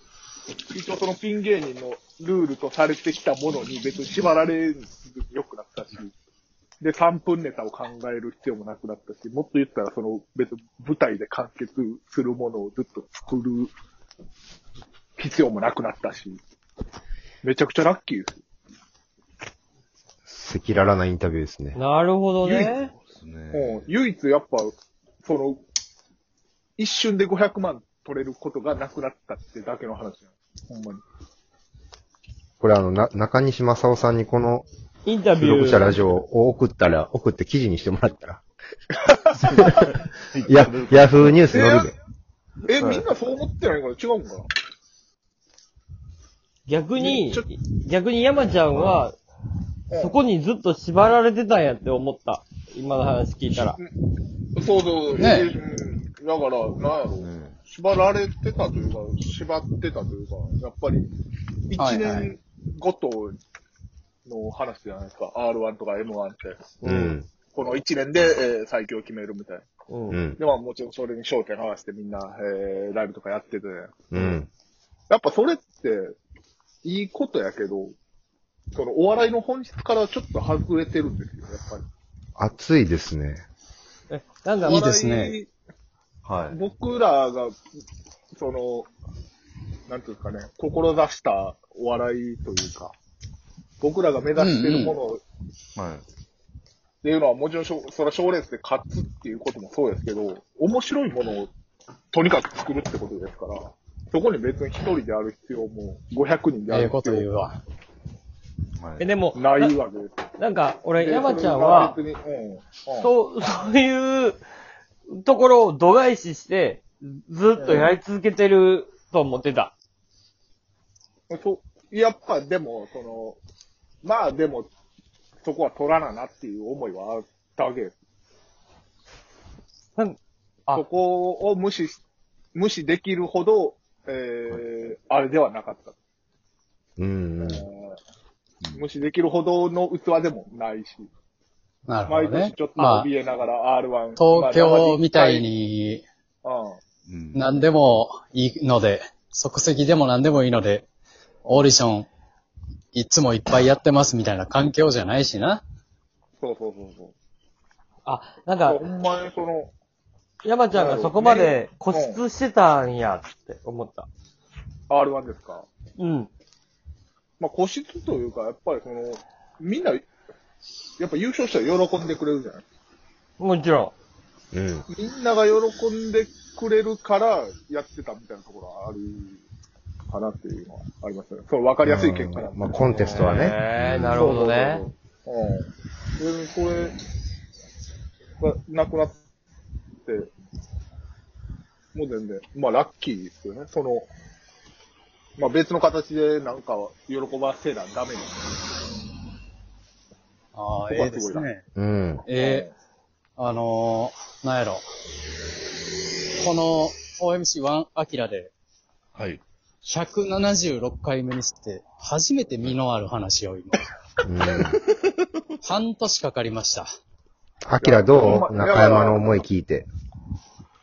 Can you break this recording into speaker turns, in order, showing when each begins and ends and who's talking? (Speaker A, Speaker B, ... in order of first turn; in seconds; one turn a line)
Speaker A: 0.7-6.1
Speaker A: 6.8-13.7
Speaker A: 15.2-16.4
Speaker A: 17.4-18.4
Speaker B: 20.3-21.8
Speaker C: 21.7-22.9
Speaker A: 22.4-22.7
Speaker D: 22.9-23.9
Speaker A: 23.5-25.6
Speaker A: 26.8-31.0
Speaker B: 32.6-34.7
Speaker C: 35.0-36.0
Speaker B: 35.4-38.4
Speaker D: 39.4-41.4
Speaker B: 39.5-39.9
Speaker B: 40.4-41.9
Speaker A: 41.5-41.9
Speaker A: 42.7-44.5
Speaker D: 42.7-43.0
Speaker C: 46.6-49.2
Speaker A: 47.0-47.5
Speaker D: 48.7-49.0
Speaker A: 49.9-50.2
Speaker C: 49.9-53.8
Speaker A: 53.5-53.9
Speaker A: 54.5-61.1
Speaker E: 55.1-55.5
Speaker D: 57.1-57.6
Speaker A: 61.7-63.4
Speaker E: 61.8-62.3
Speaker A: 64.2-66.9
Speaker C: 66.8-67.1
Speaker B: 66.8-67.3
Speaker A: 67.5-69.7
Speaker C: 69.9-70.2
Speaker B: 70.1-70.4
Speaker A: 70.4-74.0
Speaker B: 74.1-74.5
Speaker A: 75.1-76.1
Speaker A: 76.8-77.9
Speaker A: 78.7-81.8
Speaker B: 82.4-83.4
Speaker C: 84.1-84.8
Speaker E: 84.7-85.4
Speaker A: 84.7-85.5
Speaker D: 86.2-86.6
Speaker A: 86.5-87.5
Speaker A: 88.3-88.9
Speaker A: 89.9-92.9
Speaker A: 93.8-95.2
Speaker E: 94.3-95.0
Speaker D: 95.8-96.0
Speaker A: 97.0-101.5
Speaker A: 102.1-107.3
Speaker E: 106.7-107.6
Speaker D: 108.8-109.1
Speaker C: 109.0-109.7
Speaker A: 109.3-110.2
Speaker C: 110.4-112.0
Speaker A: 111.0-113.1
Speaker C: 113.0-114.4
Speaker C: 115.1-119.7
Speaker A: 117.6-117.9
Speaker A: 121.3-123.4
Speaker A: 124.0-124.7
Speaker A: 125.4-127.9
Speaker C: 129.9-130.8
Speaker A: 130.7-132.0
Speaker A: 132.5-135.9
Speaker B: 137.0-137.6
Speaker A: 137.4-138.0
Speaker A: 138.7-141.1
Speaker E: 141.9-143.1
Speaker A: 142.1-145.4
Speaker E: 144.2-146.0
Speaker A: 146.4-146.8
Speaker D: 147.1-147.5
Speaker E: 147.3-150.9
Speaker A: 151.4-151.7
Speaker E: 151.4-152.1
Speaker E: 152.9-155.6
Speaker A: 156.4-157.1
Speaker C: 158.1-158.8
Speaker A: 158.7-159.7
Speaker C: 160.4-164.1
Speaker A: 160.7-162.2
Speaker A: 164.9-165.7
Speaker C: 166.0-166.3
Speaker A: 167.4-170.1
Speaker A: 171.0-172.6
Speaker C: 173.4-173.9
Speaker B: 174.5-174.9
Speaker A: 174.9-179.4
Speaker A: 180.1-183.4
Speaker B: 181.8-183.6
Speaker C: 182.9-184.8
Speaker D: 183.9-184.2
Speaker A: 184.1-186.9
Speaker A: 188.4-189.2
Speaker A: 191.9-194.1
Speaker A: 195.4-198.3
Speaker E: 200.5-201.7
Speaker A: 200.9-201.5
Speaker B: 201.7-202.2
Speaker E: 202.2-202.7
Speaker A: 202.3-202.7
Speaker E: 203.4-204.8
Speaker E: 206.4-208.5
Speaker D: 209.1-209.4
Speaker E: 209.8-213.8
Speaker B: 214.2-214.8
Speaker D: 214.5-215.4
Speaker E: 215.6-216.9
Speaker B: 217.6-219.9
Speaker A: 217.8-219.3